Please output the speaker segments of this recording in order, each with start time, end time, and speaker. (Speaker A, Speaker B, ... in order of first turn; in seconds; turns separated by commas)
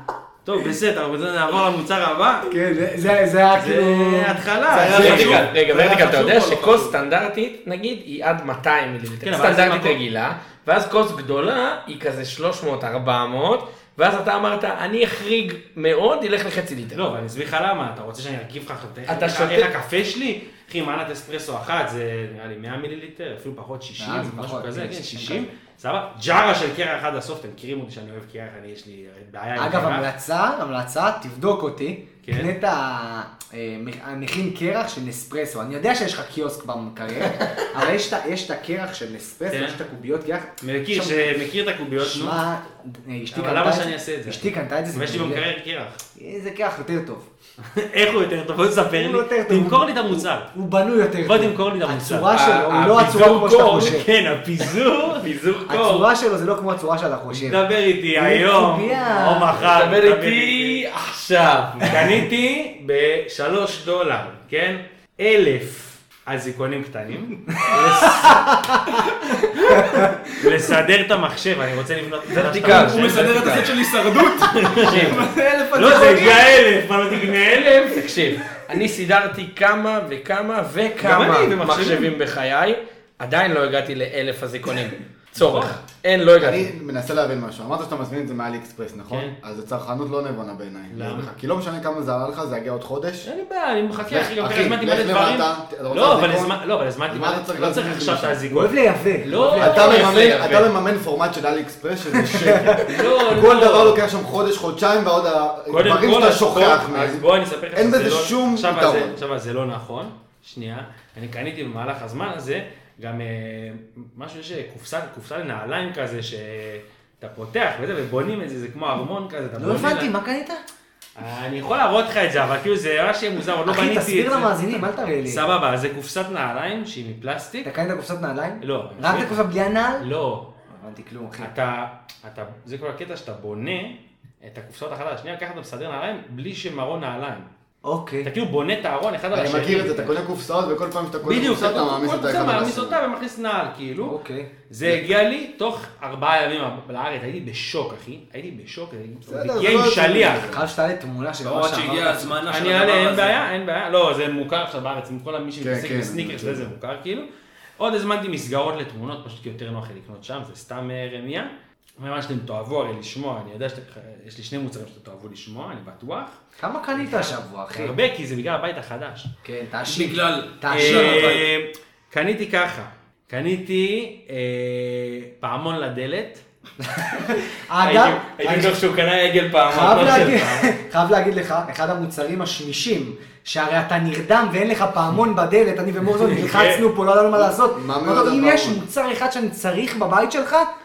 Speaker A: 0.4-2.5, Speaker B: 2.5-5.4, Speaker A: 3.5-6.9, Speaker C: 4.7-17.1, Speaker D: 4.9-6.9, Speaker A: 9.2-10.0, Speaker A: 16.9-30.1, Speaker C: 19.1-19.7, Speaker B: 24.0-25.5, Speaker B: 29.6-41.4, Speaker A: 32.2-32.5, Speaker A: 39.5-39.8, Speaker A: 40.6-42.4, Speaker B: 42.0-45.5, Speaker A: 43.3-46.0, Speaker B: 46.2-47.3, Speaker A: 47.6-50.5, Speaker B: 48.9-54.1, Speaker A: 51.2-55.3, Speaker C: 52.3-53.9, Speaker C: 55.0-56.1, Speaker B: 55.7-59.7, Speaker A: 57.3-60.9, Speaker C: 59.6-62.0, Speaker A: 61.8-68.6, Speaker B: 68.1-68.8, Speaker D: 69.3-69.8, Speaker A: 69.5-73.7, Speaker B: 69.8-70.1, Speaker C: 72.3-73.7, Speaker D: 72.6-76.6, Speaker A: 74.4-78.1, Speaker C: 74.8-75.3, Speaker C: 77.9-86.7, Speaker A: 81.0-82.1, Speaker A: 85.3-85.8, Speaker E: 86.4-93.3, Speaker A: 89.1-89.4, Speaker A: 90.9-91.3, Speaker A: 93.2-100.7, Speaker E: 94.0-96.6, Speaker E: 97.1-98.4, Speaker B: 98.5-100.1, Speaker E: 99.4-109.2, Speaker C: 99.8-100.6, Speaker B: 102.2-102.8, Speaker A: 102.8-104.0, Speaker A: 105.7-120.1, Speaker B: 119.6-120.6, Speaker A: 121.2-127.7, Speaker B: 123.7-125.5, Speaker B: 127.6-130.1, Speaker A: 128.6-129.5, Speaker A: 130.0-130.5, Speaker B: 130.7-131.5, Speaker A: 131.4-137.5, Speaker B: 137.8-138.3, Speaker A: 138.2-140.2, Speaker E: 139.3-143.0, Speaker A: 141.2-144.2, Speaker B: 144.0-144.5, Speaker A: 144.7-150.6, Speaker E: 144.8-145.1, Speaker E: 149.3-150.7, Speaker B: 150.5-152.3, Speaker D: 151.4-153.4, Speaker A: 152.5-166.4, Speaker E: 155.6-156.7, Speaker B: 166.6-168.0, Speaker A: 167.0-169.3, Speaker B: 169.4-171.4, Speaker D: 169.9-171.5, Speaker A: 170.7-176.4, Speaker B: 176.8-178.8, Speaker C: 177.8-180.5, Speaker B: 179.7-190.7, Speaker A: 179.8-180.7, Speaker A: 186.3-186.8, Speaker E: 187.3-188.8